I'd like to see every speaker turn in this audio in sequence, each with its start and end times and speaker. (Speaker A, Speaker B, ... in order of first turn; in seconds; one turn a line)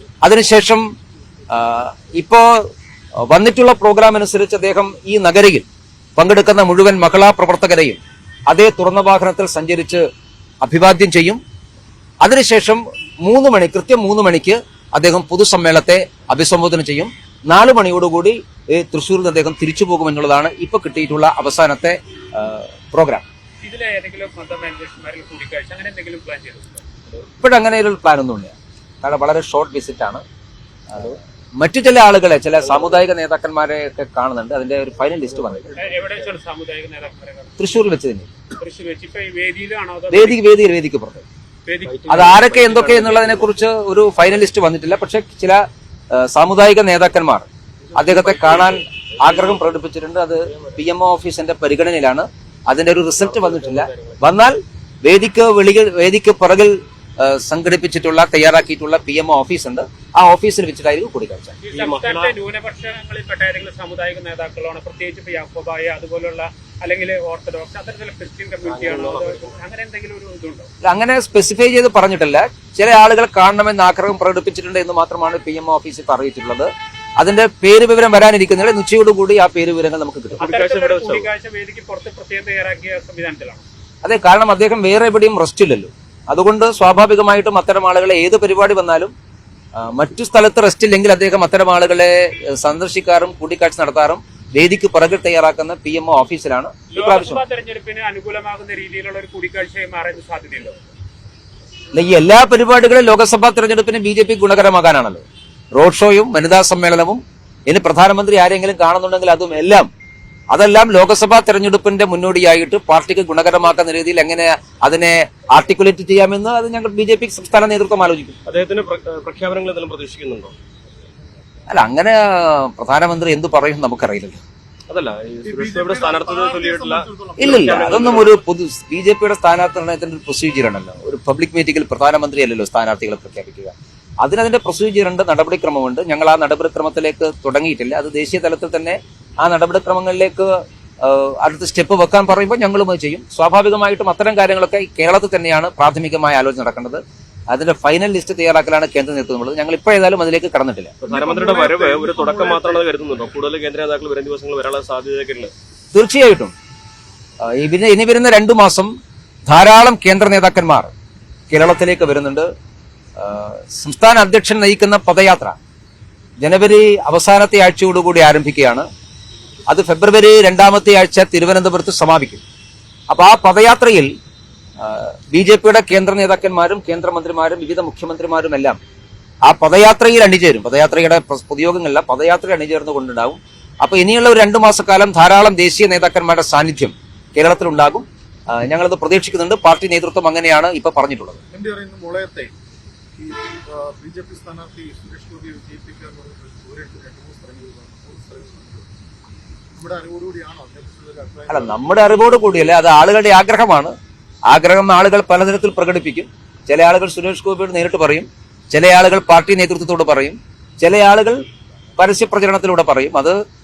Speaker A: 0.2-0.9
Speaker A: 1.5-2.7
Speaker A: 3.2-5.7
Speaker A: 6.2-10.0
Speaker A: 10.6-11.4
Speaker A: 12.2-23.2
Speaker B: 23.6-26.8
Speaker A: 27.4-30.2
Speaker A: 30.9-35.7
Speaker C: 35.4-36.1
Speaker B: 35.8-37.6
Speaker A: 37.6-38.3
Speaker B: 38.5-40.4
Speaker A: 40.1-41.2
Speaker B: 41.7-42.1
Speaker C: 41.9-43.5
Speaker A: 42.1-61.6
Speaker C: 47.9-49.7
Speaker C: 53.2-54.2
Speaker B: 61.6-70.7
Speaker C: 61.7-62.4
Speaker C: 68.7-69.5
Speaker A: 70.8-80.4
Speaker C: 80.4-81.3
Speaker B: 80.4-83.6
Speaker A: 84.0-89.1
Speaker A: 89.8-97.4
Speaker B: 96.9-100.8
Speaker A: 101.9-105.2
Speaker A: 105.8-109.9
Speaker A: 110.5-118.4
Speaker C: 118.5-120.5
Speaker A: 121.7-124.4
Speaker C: 124.9-128.4
Speaker D: 125.4-128.1
Speaker A: 127.4-150.9
Speaker C: 151.0-155.5
Speaker D: 151.1-152.9
Speaker A: 155.9-156.5
Speaker A: 157.4-158.9
Speaker A: 159.5-160.9
Speaker A: 161.5-162.5
Speaker A: 163.2-165.5
Speaker A: 166.4-168.9
Speaker A: 169.7-172.4
Speaker A: 173.1-174.1
Speaker A: 174.8-178.8
Speaker A: 179.5-191.4
Speaker D: 191.5-192.5
Speaker D: 193.2-198.9
Speaker D: 199.8-202.4
Speaker A: 201.5-203.9
Speaker A: 204.5-211.4
Speaker A: 212.0-213.3